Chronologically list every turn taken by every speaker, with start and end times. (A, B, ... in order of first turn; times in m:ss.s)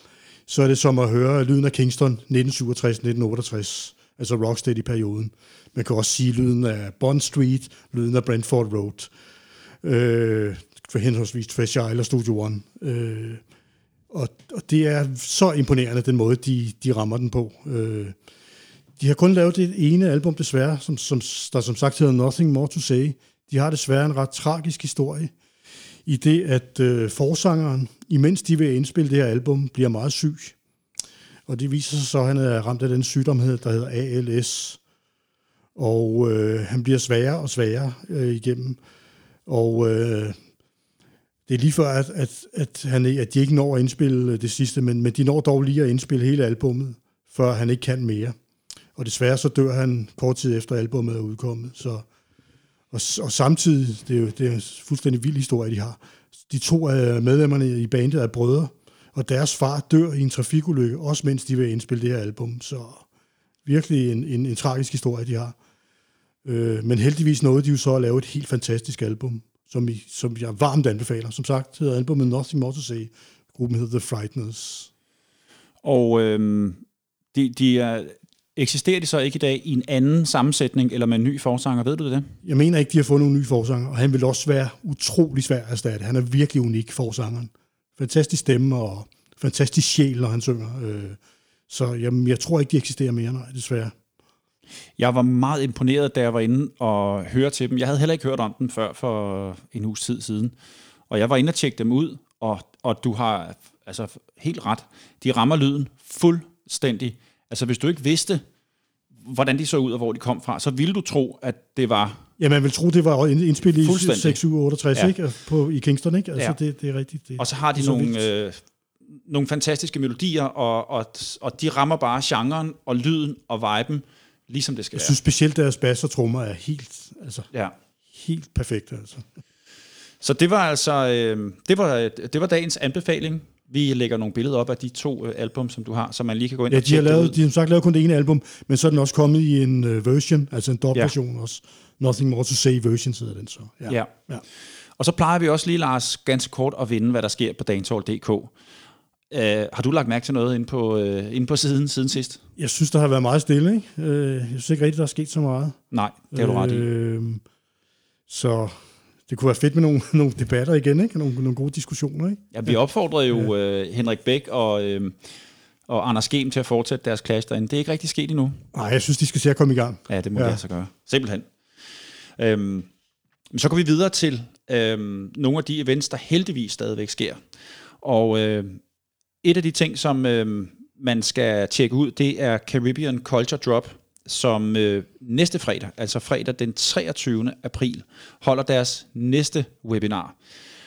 0:00.5-0:09.1 A
0:09.8-0:13.4 A
0:14.1-0:18.2 A
0:19.0-0:25.3 A
0:26.0-0:30.6 A
0:31.5-0:34.8 A
0:35.8-0:38.8 A
0:39.5-0:40.4 A
0:41.5-0:48.4 A
0:49.0-0:52.1 A
0:52.9-1:03.0 A
1:03.6-1:05.6 A
1:06.4-1:14.9 A
1:15.8-1:16.8 B
1:17.3-1:22.3 B
1:22.4-1:33.9 A
1:35.0-1:40.5 B
1:41.1-1:48.4 B
1:49.2-1:52.2 B
1:52.4-1:58.2 A
1:53.8-1:54.4 B
1:57.4-1:58.6 B
1:59.1-2:05.2 B
2:04.9-2:07.4 A
2:08.1-2:09.2 A
2:10.2-2:17.4 B
2:16.7-2:24.4 A
2:25.0-2:28.5 B
2:29.3-2:32.4 B
2:32.6-2:35.8 A
2:35.9-2:36.9 B
2:36.3-2:37.4 A
2:38.3-2:42.7 A
2:42.5-2:45.2 B
2:45.9-2:48.6 B
2:48.7-2:50.6 A
2:50.1-2:51.5 B
2:52.4-2:52.9 B
2:53.5-2:57.4 B
2:58.0-2:58.8 B
2:59.4-3:10.4 B